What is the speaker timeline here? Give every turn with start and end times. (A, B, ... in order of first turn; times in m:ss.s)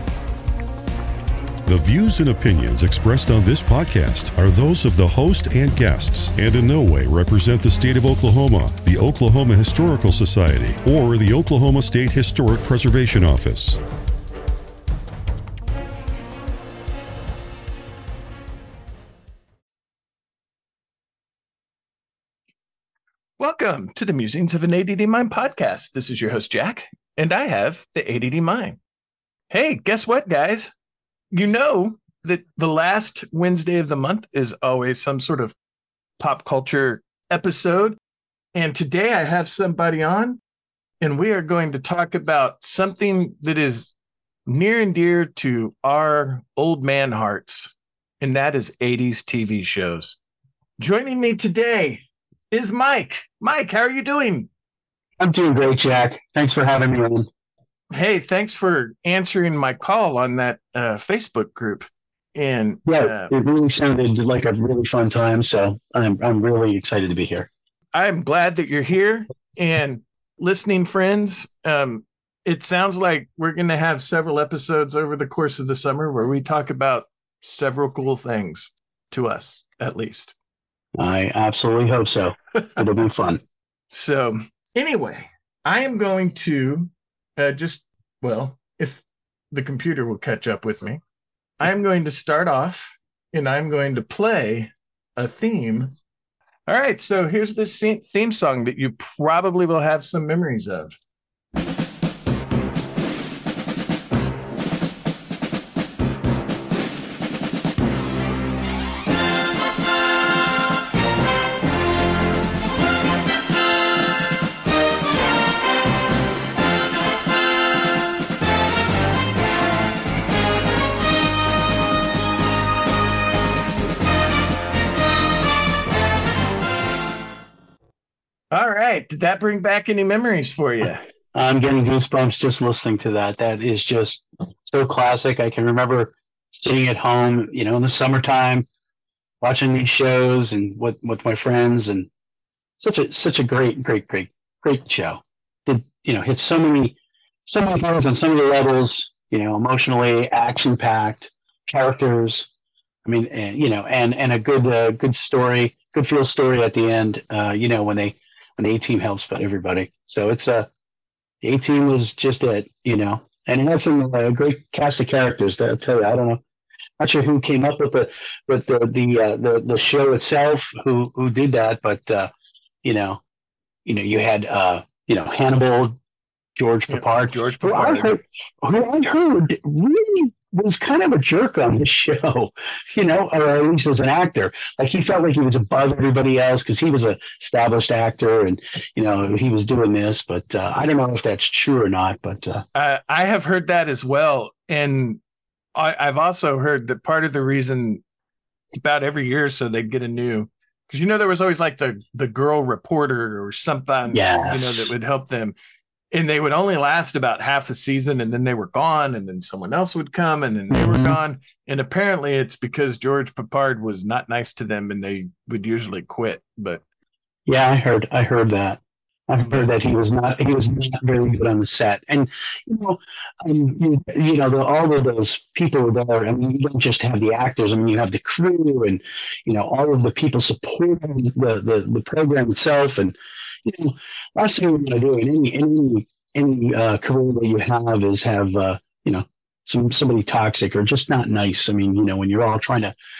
0:01.6-0:13.8 A
0:23.4-0:28.8 B
0:29.5-0:30.7 B
0:31.3-0:35.5 B
0:36.2-0:38.0 B
0:38.5-0:40.4 B
0:41.0-0:43.9 B
0:44.5-0:50.2 B
0:50.8-0:54.5 B
0:55.2-0:57.3 C
0:57.9-1:03.3 B
1:02.9-1:07.5 C
1:07.9-1:20.3 B
1:21.0-1:23.4 C
1:23.9-1:31.0 B
1:31.6-1:35.9 B
1:36.7-1:41.0 B
2:08.5-2:11.0 B
2:11.3-2:18.7 C
2:19.4-2:22.1 C
2:22.8-2:32.5 C
2:33.0-2:40.7 C
2:41.4-2:46.4 C
2:47.0-2:52.3 C
2:52.8-2:53.2 C
2:53.8-2:56.0 C
2:56.6-3:12.6 C
2:56.9-2:58.2 B
3:12.7-3:15.2 B
3:15.7-3:18.0 B
3:18.7-3:25.5 B
3:24.1-3:24.9 C
3:26.1-3:36.8 B
3:30.7-3:31.2 C
3:37.5-4:02.9 C